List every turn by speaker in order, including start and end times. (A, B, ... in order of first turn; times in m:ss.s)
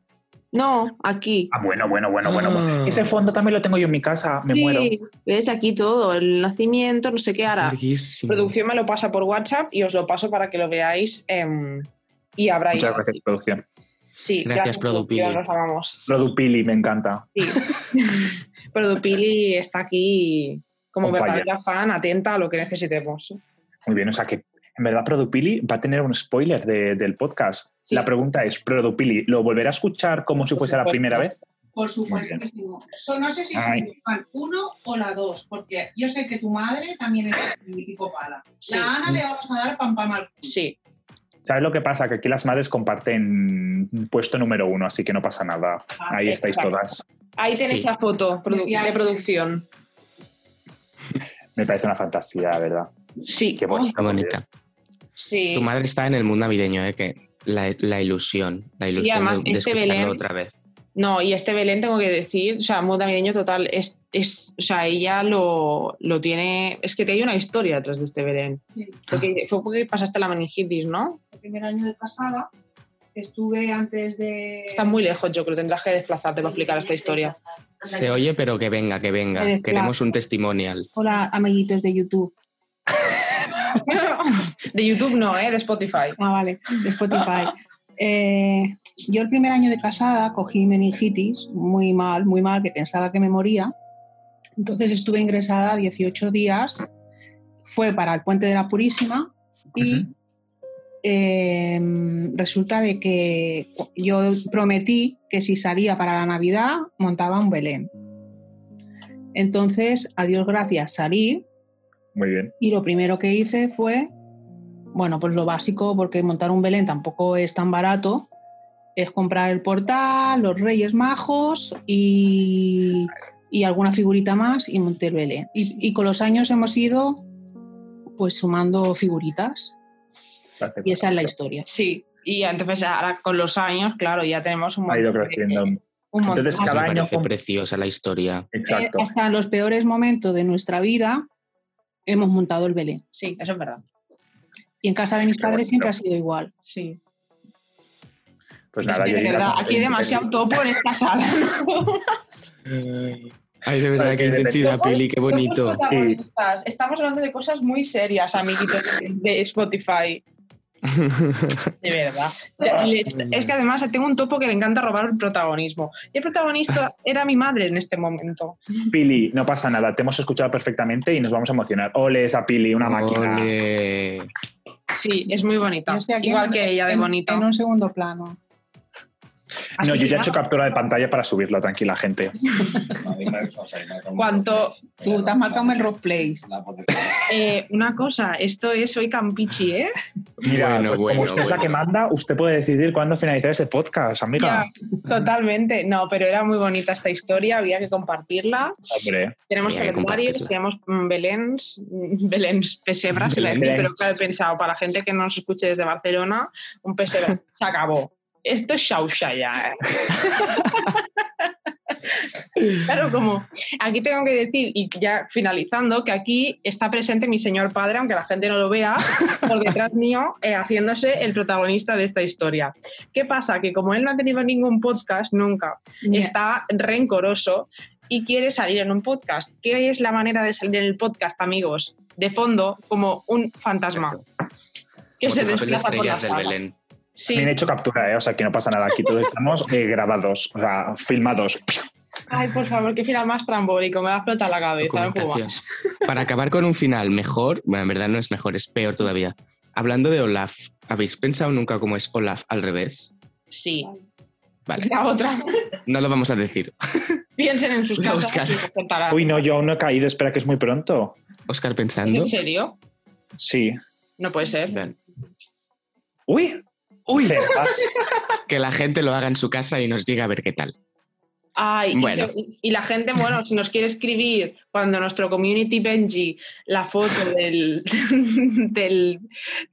0:00.5-0:01.5 A
0:01.5-0:04.9 B
0:02.4-0:03.0 C
0:04.5-0:13.1 A
0:07.5-0:08.5 C
0:12.7-0:13.6 B
0:14.2-0:16.1 A
0:14.5-0:15.4 C
0:16.1-0:17.5 B
0:17.4-0:23.4 A
0:21.0-0:21.5 B
0:23.9-0:31.4 B
0:30.6-0:31.3 A
0:31.8-0:40.5 D
0:32.1-0:32.4 B
0:33.5-0:33.9 B
0:38.7-0:38.9 A
0:40.4-0:40.8 A
0:41.4-0:47.0 B
0:46.3-0:46.7 A
0:47.4-0:49.7 A
0:47.6-0:47.9 C
0:48.5-0:49.2 D
0:51.6-0:52.9 B
0:53.2-0:54.0 A
0:53.6-0:54.4 B
0:54.0-0:54.4 C
0:55.2-0:55.7 A
0:55.5-1:00.5 C
0:58.9-1:00.2 A
1:01.0-1:11.2 A
1:11.3-1:12.5 D
1:13.1-1:15.0 D
1:14.7-1:17.3 A
1:16.4-1:18.3 D
1:17.9-1:20.9 C
1:19.4-1:20.0 D
1:21.0-1:22.3 D
1:23.7-1:26.2 A
1:26.2-1:33.7 D
1:34.6-1:36.9 D
1:37.6-1:40.1 D
1:41.0-1:47.9 D
1:49.3-1:51.4 D
1:52.1-1:52.5 B
1:52.6-1:54.1 D
1:54.9-1:58.3 D
1:59.0-2:07.2 D
2:08.2-2:09.8 D
2:10.6-2:11.3 B
2:10.8-2:11.7 D
2:11.7-2:16.8 A
2:14.9-2:17.3 B
2:16.5-2:18.5 C
2:18.5-2:19.1 B
2:18.7-2:21.2 D
2:22.1-2:23.0 D
2:23.1-2:23.8 A
2:24.8-2:26.5 D
2:25.4-2:25.9 B
2:26.7-2:27.0 A
2:28.7-2:30.4 B
2:28.8-2:32.2 A
2:32.7-2:35.8 C
2:34.0-2:34.8 B
2:34.6-2:40.2 A
2:35.9-2:36.2 B
2:40.9-2:41.6 C
2:41.8-2:48.9 A
2:48.9-2:53.5 B
2:52.8-2:54.3 C
2:54.9-2:57.5 A
2:55.9-2:58.4 D
2:59.8-3:00.4 A
2:59.8-3:02.8 B
3:02.9-3:05.6 E
3:04.2-3:04.8 A
3:05.0-3:06.4 D
3:06.5-3:07.0 E
3:07.3-3:10.0 A
3:10.4-3:14.7 B
3:10.4-3:11.8 C
3:14.4-3:18.8 A
3:18.9-3:19.4 B
3:19.5-3:31.5 A
3:19.6-3:20.5 C
3:23.3-3:23.9 C
3:23.6-3:23.9 B
3:32.6-3:54.2 A
3:46.1-3:46.3 D
3:55.2-3:56.6 A
3:55.2-3:56.7 C
3:57.2-3:57.5 A
3:57.3-4:01.9 B
4:02.3-4:05.6 A
4:04.8-4:13.1 C
4:13.5-4:14.0 A
4:14.8-4:15.8 A
4:15.9-4:17.2 C
4:17.4-4:19.4 A
4:18.0-4:18.6 C
4:19.1-4:21.2 B
4:21.5-4:22.3 C
4:22.1-4:22.8 A
4:23.4-4:23.8 B
4:24.2-4:24.8 A
4:26.3-4:27.9 B
4:27.1-4:27.4 C
4:28.5-4:30.7 C
4:31.6-4:39.3 A
4:32.0-4:32.3 C